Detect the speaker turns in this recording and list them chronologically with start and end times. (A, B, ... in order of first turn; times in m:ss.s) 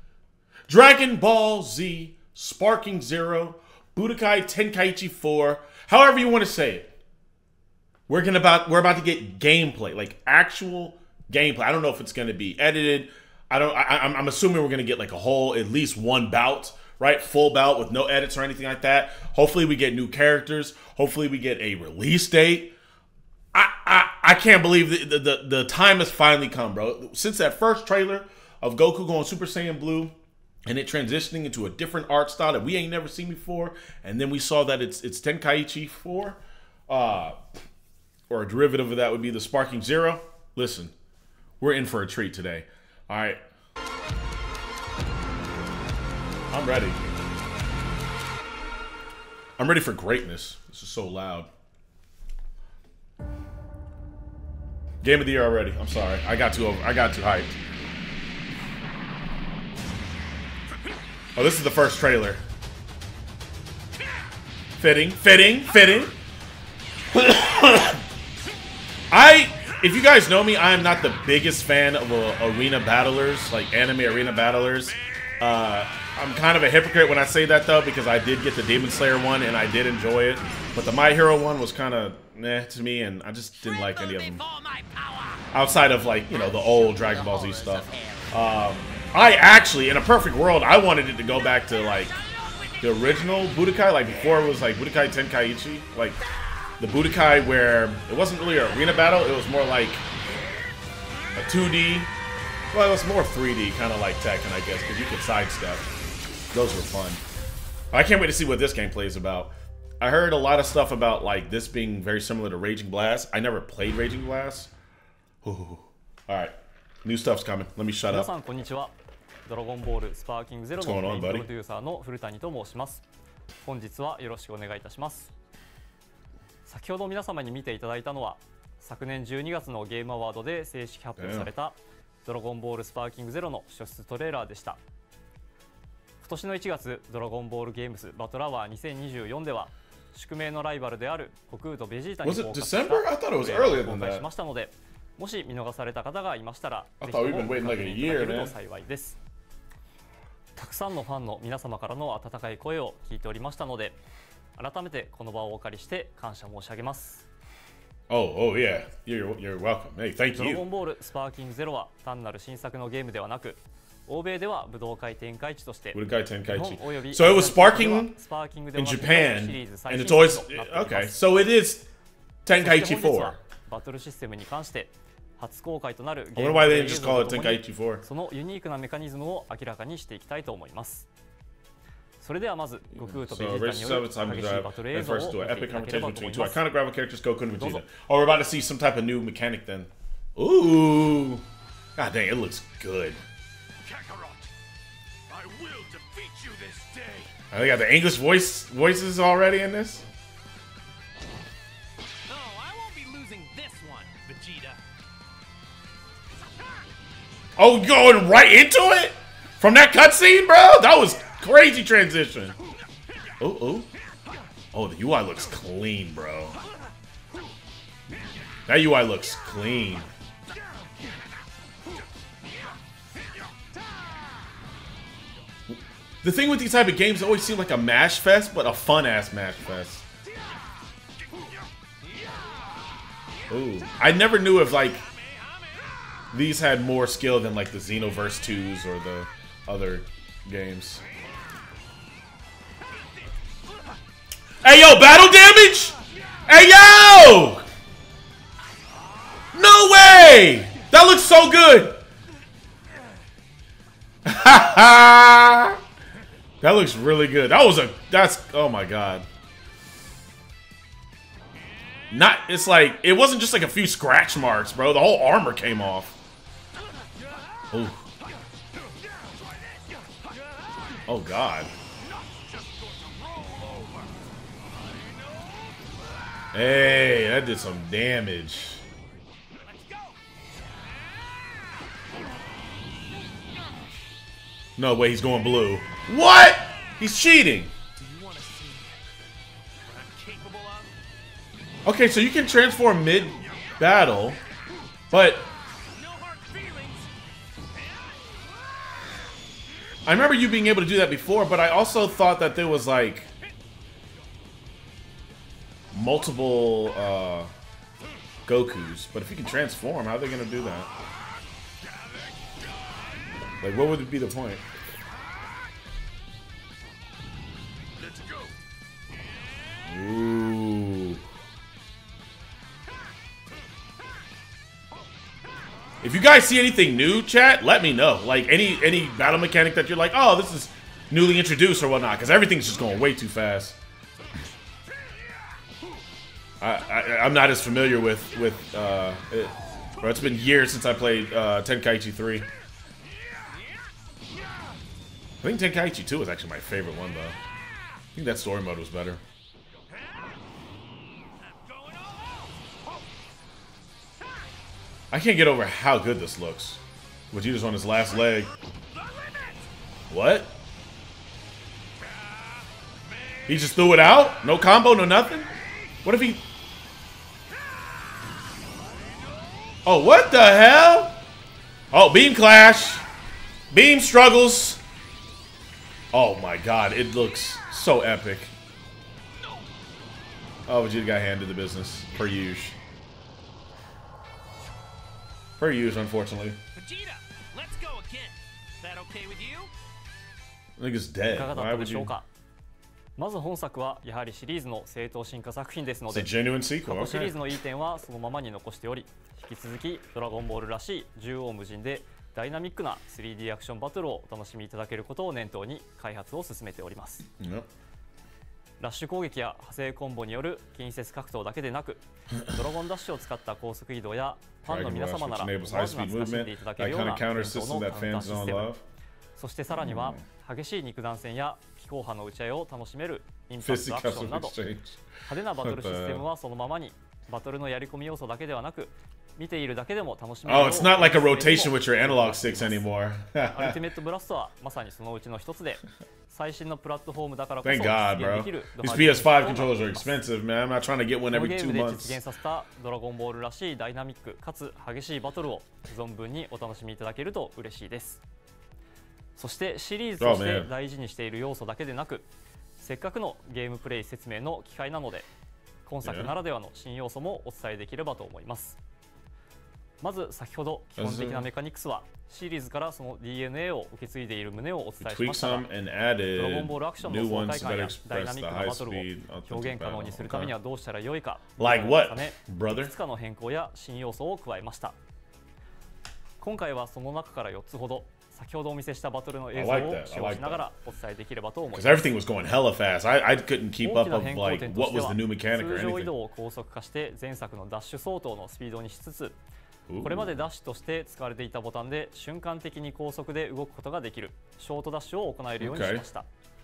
0:00.7-0:06.9 A
0:08.1-0:22.7 A
0:23.5-0:30.1 A
0:30.7-0:37.4 A
0:38.3-0:40.9 A
0:41.6-0:43.4 A
0:46.5-0:47.0 A
0:49.6-0:51.5 A
0:55.0-0:57.5 A
1:01.4-1:02.4 A
1:04.8-1:06.2 A
1:07.1-1:08.0 A
1:09.1-1:24.4 A
1:23.8-1:25.4 B
1:25.5-1:32.2 A
1:27.8-1:28.3 B
1:32.2-1:32.8 B
1:32.8-1:36.2 A
1:36.8-1:40.0 A
1:41.4-1:42.1 A
1:42.7-1:45.9 A
1:46.5-1:47.2 A
1:47.9-1:54.7 A
1:55.4-1:58.3 A
1:58.1-1:58.9 C
1:59.5-2:03.0 C
2:00.8-2:01.5 A
2:03.6-2:05.3 C
2:06.7-2:14.8 C
2:11.2-2:11.5 A
2:16.2-2:29.2 C
2:22.2-2:24.2 A
2:27.0-2:28.5 A
2:30.6-2:34.0 C
2:34.6-2:37.2 C
2:38.1-2:40.6 A
2:40.3-2:51.2 C
2:45.9-2:48.2 A
2:48.8-2:51.9 A
2:52.4-2:53.4 A
2:52.6-3:01.1 C
2:56.3-2:58.0 A
3:02.2-3:06.6 C
3:03.0-3:11.4 A
3:07.6-3:07.8 C
3:12.0-3:13.2 A
3:13.8-3:14.5 B
3:15.3-3:17.3 B
3:17.5-3:20.0 A
3:22.3-3:24.8 B
3:27.6-3:32.6 A
3:33.4-3:33.9 A
3:34.7-3:36.6 A
3:38.7-3:40.1 A
3:45.7-3:50.0 A
3:53.5-3:55.0 A
3:55.3-3:56.2 B
3:56.3-4:01.0 A
4:04.6-4:07.7 A
4:09.5-4:12.0 A
4:14.2-4:15.8 A
4:16.6-4:19.2 A
4:22.1-4:26.2 A
4:27.7-4:28.0 A
4:31.1-4:31.7 A
4:32.0-4:34.1 B
4:36.5-4:38.8 A
4:39.6-4:40.2 B
4:44.8-4:47.7 A
4:48.0-4:49.0 B
4:49.8-4:50.9 B
4:51.8-4:54.4 A
4:55.1-4:55.5 A
4:55.9-4:57.1 B
4:57.8-4:58.5 B
5:00.1-5:03.3 A
5:05.9-5:07.5 A
5:08.5-5:10.9 A
5:13.6-5:14.6 A
5:19.9-5:21.2 A
5:26.0-5:33.8 A
5:36.6-5:42.5 A
5:45.4-5:47.4 A
5:48.2-5:49.2 A
5:51.6-5:52.5 B
5:55.1-5:58.5 A
5:58.9-5:59.7 B
6:00.1-6:00.6 A
6:03.5-6:05.5 A
6:06.0-6:06.4 A
6:09.9-6:11.2 A
6:11.9-6:13.0 A
6:13.7-6:14.8 A
6:16.1-6:18.5 A
6:20.7-6:22.8 A
6:25.6-6:26.6 A
6:26.8-6:29.7 B
6:30.8-6:32.1 A
6:31.3-6:32.3 C
6:33.2-6:36.3 C
6:36.1-6:37.4 A
6:36.8-6:47.2 C
6:47.4-6:47.7 A
6:48.8-6:58.7 C
6:54.6-6:58.8 A
6:59.4-7:04.6 C
6:59.7-7:00.2 A
7:03.6-7:05.0 A
7:05.2-7:12.8 C
7:05.6-7:06.2 A
7:10.4-7:13.8 A
7:13.5-7:20.2 C
7:17.6-7:22.2 A
7:21.3-7:28.2 C
7:29.4-7:32.3 C
7:30.2-7:30.7 A
7:32.8-7:35.3 C
7:35.9-7:38.8 C
7:36.0-7:36.3 A
7:40.0-7:45.7 C
7:41.0-7:41.5 A
7:45.0-7:50.6 A
7:46.3-7:55.0 C
7:51.6-7:52.9 A
7:56.4-8:02.1 C
7:59.5-8:00.7 A
8:01.7-8:06.1 A
8:03.8-8:09.4 C
8:09.9-8:10.5 A
8:10.0-8:16.3 C
8:15.6-8:16.1 A